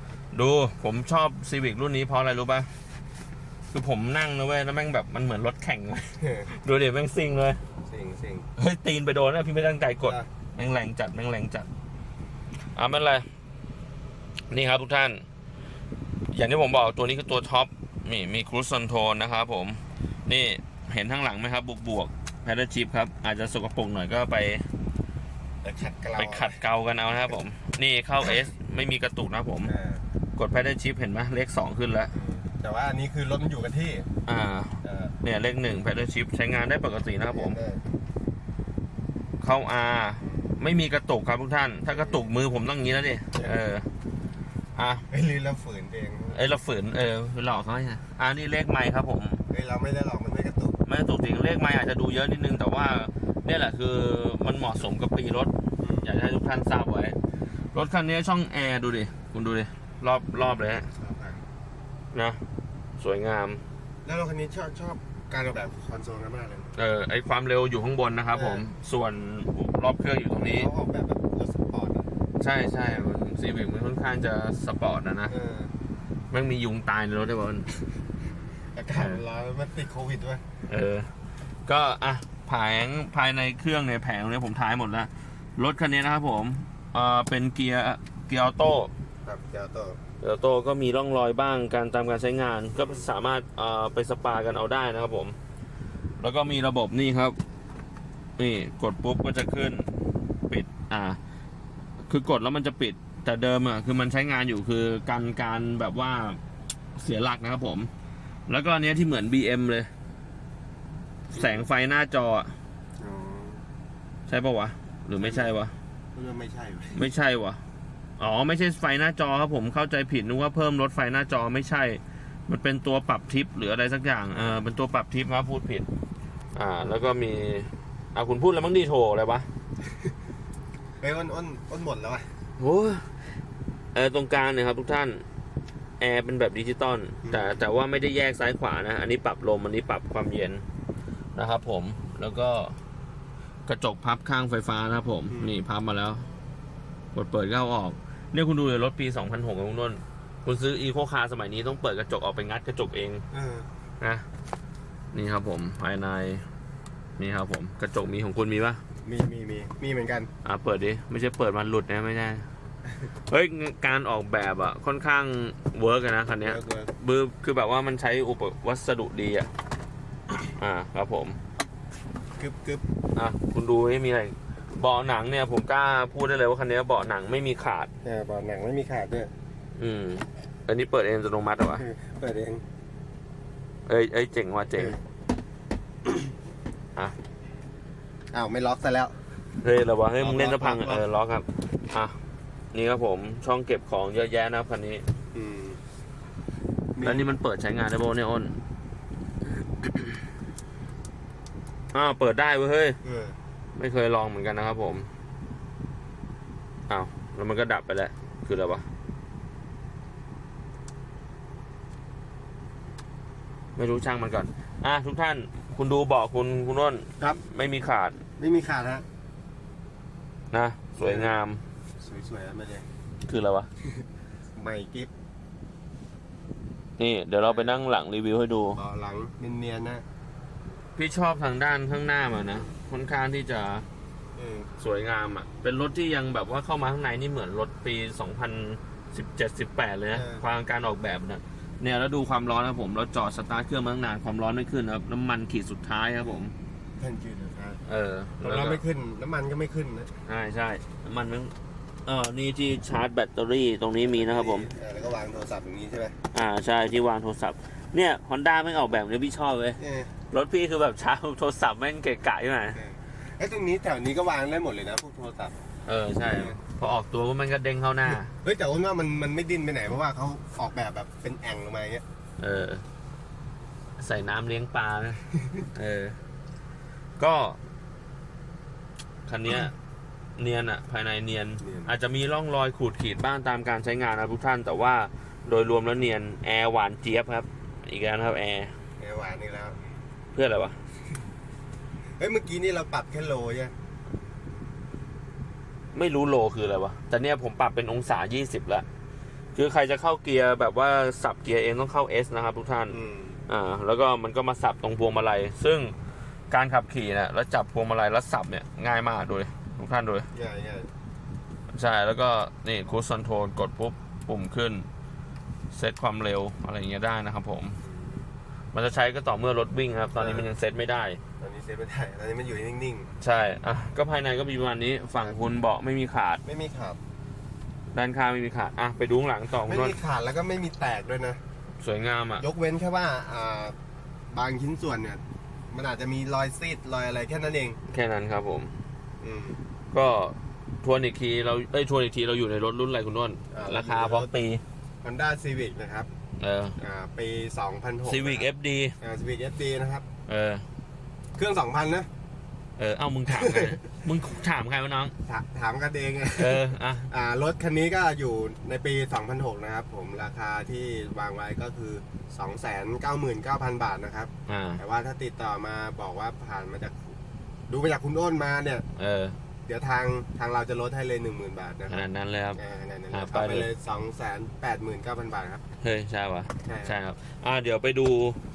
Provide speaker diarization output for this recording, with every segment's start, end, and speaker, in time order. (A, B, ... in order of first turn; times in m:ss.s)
0:00.3-0:02.7 A
0:03.7-0:07.6 A
0:06.2-0:06.5 B
0:07.8-0:08.5 B
0:08.6-0:11.7 A
0:10.0-0:10.3 B
0:12.7-0:13.3 A
0:14.5-0:15.2 A
0:16.3-0:24.7 A
0:25.6-0:26.6 B
0:26.2-0:29.7 A
0:29.7-0:30.0 B
0:30.3-0:32.1 A
0:32.1-0:34.1 B
0:34.2-0:37.6 A
0:34.8-0:35.2 B
0:37.2-0:38.0 B
0:39.4-0:43.9 A
0:40.2-0:40.5 B
0:41.9-0:42.3 B
0:44.7-0:45.0 A
0:45.1-0:46.5 B
0:46.3-0:49.4 A
0:49.5-0:50.8 B
0:50.8-0:57.2 A
0:55.8-0:56.1 B
0:57.7-1:00.9 A
1:00.9-1:01.4 B
1:02.1-1:02.4 A
1:03.0-1:03.6 A
1:04.0-1:06.7 B
1:06.8-1:10.7 A
1:08.3-1:08.6 B
1:10.4-1:12.1 B
1:12.4-1:15.3 A
1:15.3-1:15.7 B
1:16.3-1:17.7 A
1:18.7-1:20.4 B
1:18.9-1:19.2 A
1:20.7-1:21.1 A
1:21.6-1:28.9 A
1:29.2-1:30.0 B
1:30.2-1:35.4 A
1:32.8-1:33.0 B
1:36.2-1:37.4 A
1:38.4-1:39.9 A
1:40.5-1:41.2 A
1:42.1-1:46.4 A
1:47.0-1:47.9 A
1:48.5-1:49.9 A
1:51.3-1:52.5 A
1:51.3-1:51.6 B
1:53.0-1:53.6 B
1:54.3-1:55.7 A
1:55.2-1:55.5 B
1:56.1-1:57.0 B
1:56.9-1:57.6 A
1:58.2-2:05.9 A
2:06.5-2:09.5 A
2:11.0-2:12.3 B
2:12.6-2:13.0 A
2:13.9-2:15.2 A
2:16.0-2:20.6 A
2:17.2-2:17.6 B
2:21.3-2:22.8 A
2:23.7-2:26.2 A
2:27.1-2:33.2 A
2:33.3-2:33.7 B
2:34.0-2:34.2 A
2:35.1-2:36.4 A
2:37.2-2:38.8 A
2:39.0-2:40.3 B
2:40.4-2:42.4 A
2:43.3-2:49.5 A
2:46.4-2:46.9 B
2:50.5-2:51.4 A
2:52.4-2:52.8 B
2:53.1-2:57.9 A
2:58.0-2:59.3 B
2:59.8-3:01.8 A
3:01.7-3:02.6 B
3:03.9-3:05.0 A
3:08.3-3:09.2 B
3:09.6-3:12.2 A
3:10.2-3:11.0 B
3:12.7-3:15.0 A
3:15.3-3:15.8 B
3:17.0-3:17.3 B
3:17.0-3:18.6 A
3:19.8-3:20.1 A
3:21.9-3:23.0 A
3:23.0-3:23.4 B
3:23.8-3:25.1 A
3:26.9-3:28.8 A
3:33.8-3:38.2 A
3:38.4-3:39.0 B
3:40.5-3:41.6 A
3:41.0-3:41.3 B
3:42.0-3:42.9 B
3:43.2-3:43.7 A
3:44.5-3:45.1 B
3:47.0-3:48.8 A
3:47.4-3:47.8 B
3:48.7-3:50.0 B
3:51.0-3:53.8 A
3:54.4-3:54.7 B
3:54.8-4:06.5 A
4:00.1-4:00.4 B
4:07.0-4:07.8 B
4:07.9-4:08.8 A
4:08.4-4:10.1 B
4:10.2-4:11.5 A
4:12.0-4:14.7 A
4:14.0-4:16.2 B
4:16.3-4:19.8 A
4:19.8-4:20.1 B
4:20.3-4:22.8 A
4:22.8-4:25.6 B
4:25.8-4:28.3 A
4:26.3-4:26.6 B
4:28.3-4:32.0 B
4:32.4-4:32.8 A
4:34.0-4:36.2 A
4:35.3-4:35.6 B
4:37.2-4:37.6 A
4:39.2-4:39.7 A
4:40.4-4:48.7 A
4:41.6-4:41.9 B
4:49.0-4:49.8 B
4:50.3-4:50.8 A
4:52.2-4:53.7 B
4:55.9-4:58.8 A
4:59.5-5:03.0 A
5:02.9-5:03.4 B
5:03.5-5:05.9 A
5:06.5-5:10.3 A
5:10.3-5:10.9 B
5:11.7-5:14.9 A
5:15.7-5:17.8 A
5:17.8-5:18.3 B
5:18.7-5:21.2 A
5:20.2-5:20.5 B
5:21.4-5:23.1 B
5:23.2-5:26.4 A
5:26.4-5:27.0 B
5:27.9-5:30.0 A
5:29.6-5:31.4 B
5:31.8-5:32.4 A
5:32.4-5:33.7 B
5:34.3-5:37.8 B
5:37.9-5:38.7 A
5:39.2-5:39.6 B
5:39.9-5:44.6 A
5:43.5-5:44.3 B
5:45.0-5:46.1 B
5:46.4-5:46.8 A
5:46.8-5:48.5 B
5:48.0-5:49.0 A
5:49.0-5:50.0 B
5:50.3-5:50.6 A
5:51.4-5:52.1 B
5:52.8-5:55.1 A
5:53.4-5:53.8 B
5:55.3-6:07.1 B
5:56.4-5:57.1 A
6:04.5-6:04.8 A
6:07.7-6:08.8 B
6:09.0-6:09.4 A
6:09.6-6:15.6 B
6:11.9-6:12.6 A
6:13.1-6:13.7 A
6:15.8-6:18.4 A
6:16.6-6:17.0 B